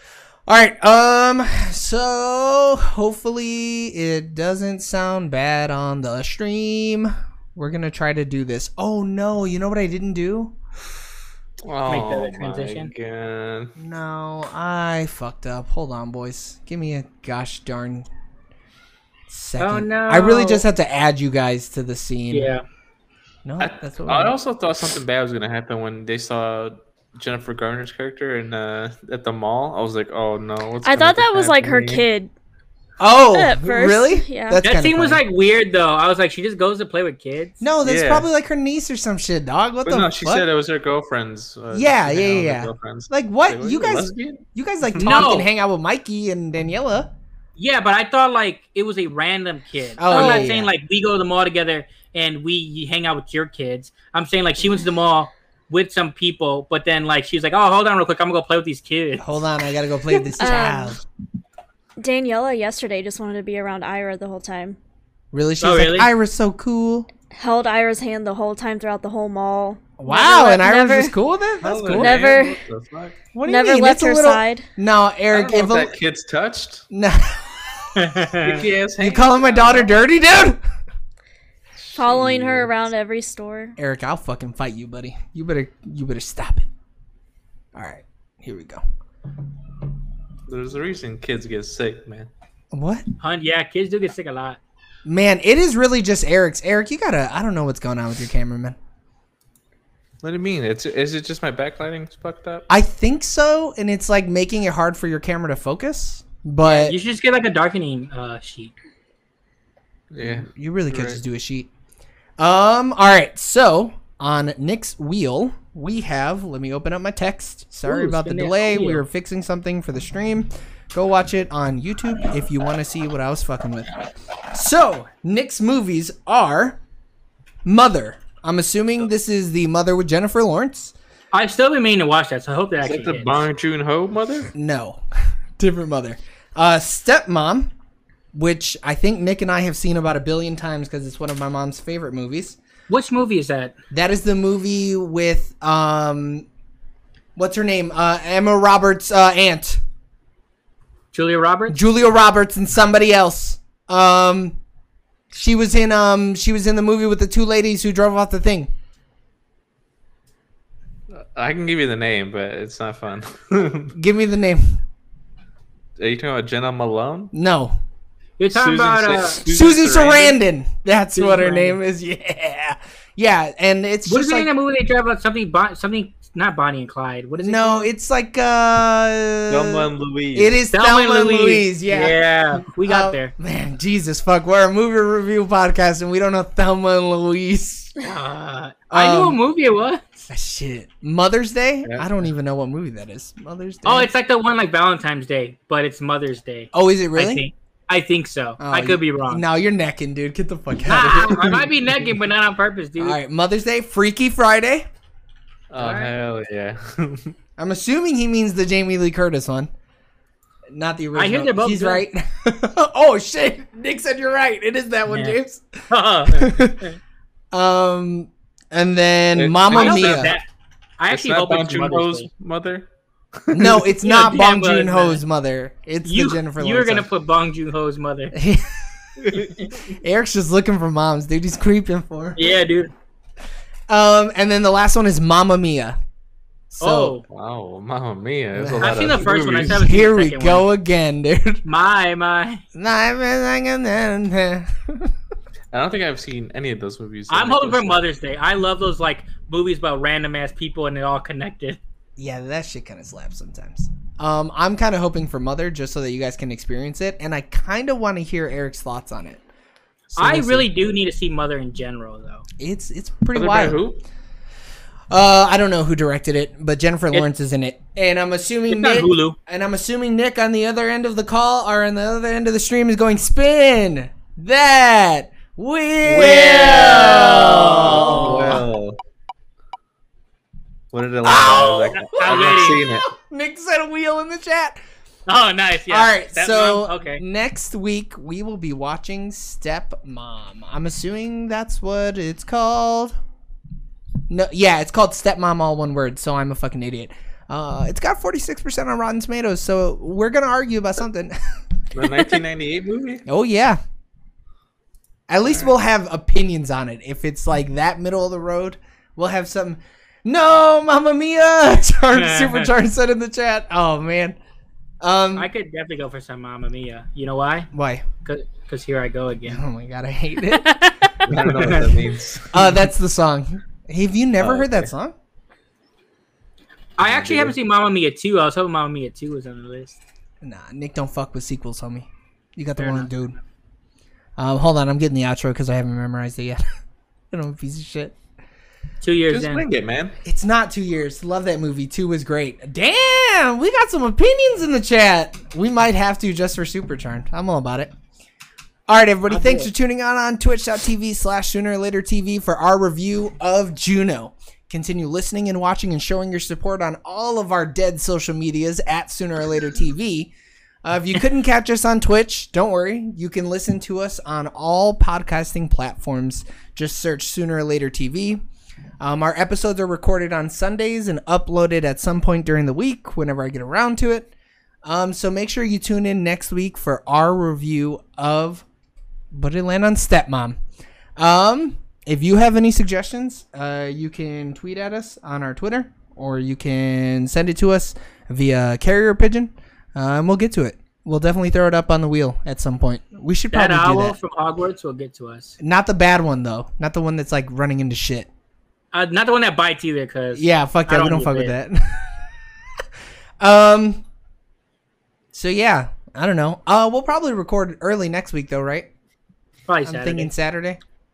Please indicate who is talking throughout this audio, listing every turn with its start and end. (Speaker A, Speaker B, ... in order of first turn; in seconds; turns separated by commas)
Speaker A: 0.5-10.5, Speaker B: 11.6-13.7, Speaker C: 11.9-12.9, Speaker A: 13.8-18.1, Speaker A: 19.3-22.5, Speaker C: 19.6-20.7, Speaker C: 22.3-22.6, Speaker A: 23.4-24.4, Speaker B: 23.6-32.0, Speaker D: 30.8-32.3, Speaker A: 33.0-35.2, Speaker D: 33.3-34.6, Speaker C: 34.6-37.6, Speaker A: 37.6-40.5, Speaker B: 37.8-38.3, Speaker B: 39.9-44.4, Speaker A: 41.7-47.1, Speaker B: 44.9-45.2, Speaker C: 45.0-45.5, Speaker C: 47.6-59.2, Speaker A: 50.0-50.7, Speaker D: 50.1-50.5, Speaker A: 59.2-61.0, Speaker D: 60.4-61.0, Speaker D: 62.0-64.8, Speaker A: 65.3-67.1, Speaker C: 65.6-66.1, Speaker D: 67.3-71.1, Speaker A: 70.0-72.3, Speaker B: 71.6-73.2, Speaker D: 71.9-72.6, Speaker A: 73.3-75.9, Speaker D: 73.5-74.7, Speaker B: 75.3-76.8, Speaker A: 76.9-78.2, Speaker C: 78.0-78.5, Speaker B: 78.4-80.0, Speaker A: 79.0-80.6, Speaker B: 81.8-82.7, Speaker D: 81.9-83.8, Speaker A: 83.8-86.7, Speaker A: 87.7-88.8, Speaker B: 90.5-92.3, Speaker A: 92.7-93.0, Speaker C: 93.2-94.6, Speaker A: 95.0-98.8, Speaker B: 100.2-102.7, Speaker A: 102.7-107.0, Speaker C: 106.6-108.7, Speaker B: 110.1-111.2, Speaker A: 110.2-111.7, Speaker A: 112.4-123.9, Speaker C: 117.8-119.0, Speaker A: 124.5-126.8, Speaker A: 127.6-130.9, Speaker C: 131.3-133.4, Speaker B: 132.8-134.5, Speaker A: 134.5-135.0, Speaker A: 135.6-137.7, Speaker A: 138.3-142.6, Speaker C: 142.9-143.7, Speaker A: 143.9-146.4, Speaker A: 147.4-149.8, Speaker C: 151.1-151.8, Speaker A: 151.7-154.6, Speaker A: 155.3-158.7, Speaker B: 161.1-163.9, Speaker A: 163.9-164.8, Speaker B: 166.0-167.3, Speaker A: 167.3-167.8, Speaker C: 168.4-169.4, Speaker B: 168.5-170.4, Speaker A: 169.4-174.5, Speaker C: 171.2-171.8, Speaker C: 174.1-177.9, Speaker A: 177.4-182.2, Speaker B: 179.5-180.6, Speaker C: 180.7-183.3, Speaker A: 182.8-187.9, Speaker C: 188.0-190.3, Speaker A: 188.9-189.4, Speaker A: 190.3-194.1, Speaker C: 193.8-199.4, Speaker A: 196.7-197.4, Speaker A: 198.6-201.7, Speaker C: 200.8-203.2, Speaker A: 203.0-204.9, Speaker B: 205.7-207.3, Speaker C: 205.8-206.1, Speaker A: 207.6-209.7, Speaker A: 210.7-216.8, Speaker C: 211.1-212.0, Speaker C: 215.1-215.4, Speaker C: 215.9-216.9, Speaker A: 217.5-220.3, Speaker B: 219.3-220.4, Speaker C: 219.7-220.4, Speaker C: 221.0-222.3, Speaker B: 221.1-223.8, Speaker A: 223.5-227.1, Speaker C: 224.0-225.2, Speaker C: 226.0-228.4, Speaker A: 228.3-228.9, Speaker A: 229.9-232.4, Speaker C: 232.4-232.9, Speaker A: 233.9-236.0, Speaker A: 236.7-237.2, Speaker C: 236.8-237.2, Speaker B: 237.3-239.8, Speaker A: 238.5-241.6, Speaker C: 238.8-240.7, Speaker C: 241.6-242.6, Speaker A: 242.7-245.1, Speaker B: 245.7-248.0, Speaker C: 247.3-251.8, Speaker A: 252.2-259.4, Speaker A: 260.1-260.7, Speaker C: 260.2-262.4, Speaker A: 262.6-263.8, Speaker B: 263.3-264.0, Speaker A: 265.1-278.7, Speaker C: 268.7-269.4, Speaker C: 276.1-278.6, Speaker B: 276.1-279.0, Speaker B: 280.9-283.1, Speaker A: 281.2-284.8, Speaker C: 281.3-282.8, Speaker C: 285.3-287.2, Speaker A: 285.9-293.1, Speaker A: 294.3-301.4, Speaker B: 301.9-303.2, Speaker A: 303.2-303.8, Speaker A: 305.3-314.4, Speaker C: 312.1-312.7, Speaker A: 315.0-315.5, Speaker C: 315.3-317.7, Speaker A: 317.7-318.1, Speaker C: 318.2-319.6, Speaker A: 319.5-320.8, Speaker D: 320.6-321.3, Speaker B: 321.2-322.5, Speaker A: 321.5-321.9, Speaker C: 321.6-321.9, Speaker A: 322.5-325.1, Speaker B: 324.4-324.9, Speaker C: 327.0-330.0, Speaker B: 327.0-327.6, Speaker A: 330.4-333.4, Speaker C: 332.8-333.1, Speaker A: 334.4-336.6, Speaker A: 337.3-338.1, Speaker C: 339.0-339.6, Speaker B: 339.3-340.2, Speaker A: 340.2-347.9, Speaker A: 348.9-360.3, Speaker C: 349.3-349.7, Speaker A: 360.8-368.4, Speaker A: 369.0-374.3, Speaker A: 374.8-378.6, Speaker A: 379.3-380.6, Speaker A: 381.2-394.2, Speaker C: 393.5-395.6, Speaker A: 395.6-398.3, Speaker C: 398.9-401.5, Speaker A: 400.3-402.1, Speaker A: 403.4-404.0, Speaker A: 405.3-408.9, Speaker C: 409.7-410.3, Speaker A: 409.8-410.8